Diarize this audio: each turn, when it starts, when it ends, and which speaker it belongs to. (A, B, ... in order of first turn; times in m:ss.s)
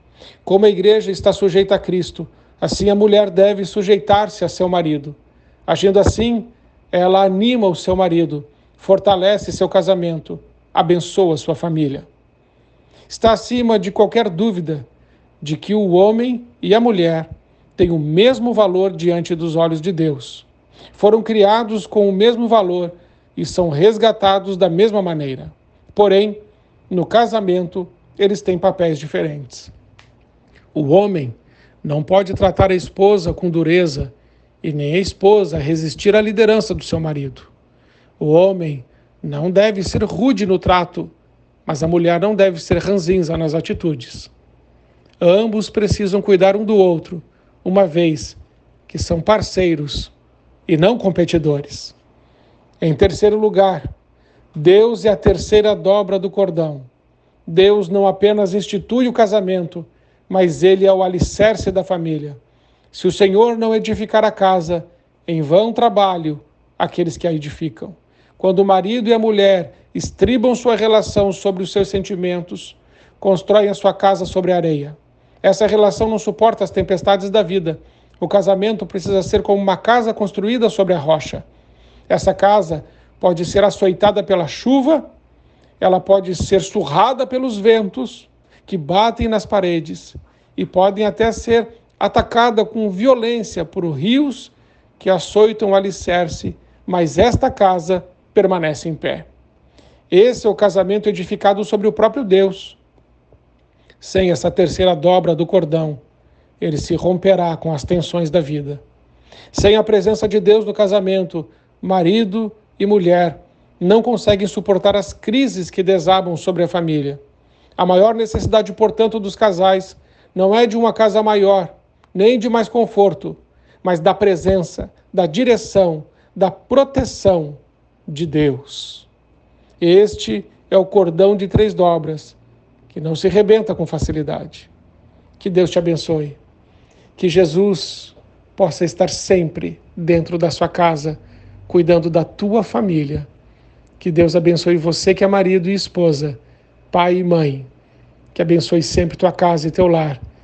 0:00.4-0:12.1 A
0:13.1-0:14.8 A
0:15.4-0:26.4 A
0:26.9-0:29.7 A
0:30.7-0:37.5 A
0:38.2-0:41.1 A
0:41.6-0:44.3 A
0:45.2-0:50.1 A
0:50.7-0:52.0 A
0:52.8-0:53.9 A
0:54.5-0:56.9 A
0:57.4-1:02.4 A
1:02.9-1:21.4 A
1:22.1-1:25.0 A
1:25.8-1:39.3 A
1:40.1-1:42.8 A
1:44.0-1:46.0 A
1:46.6-1:48.8 A
1:49.5-1:57.2 A
1:57.8-2:09.1 A
2:09.8-2:12.4 A
2:12.9-2:14.7 A
2:15.4-2:16.4 A
2:17.2-2:23.3 A
2:24.0-2:26.4 A
2:26.9-2:27.7 A
2:28.3-2:30.2 A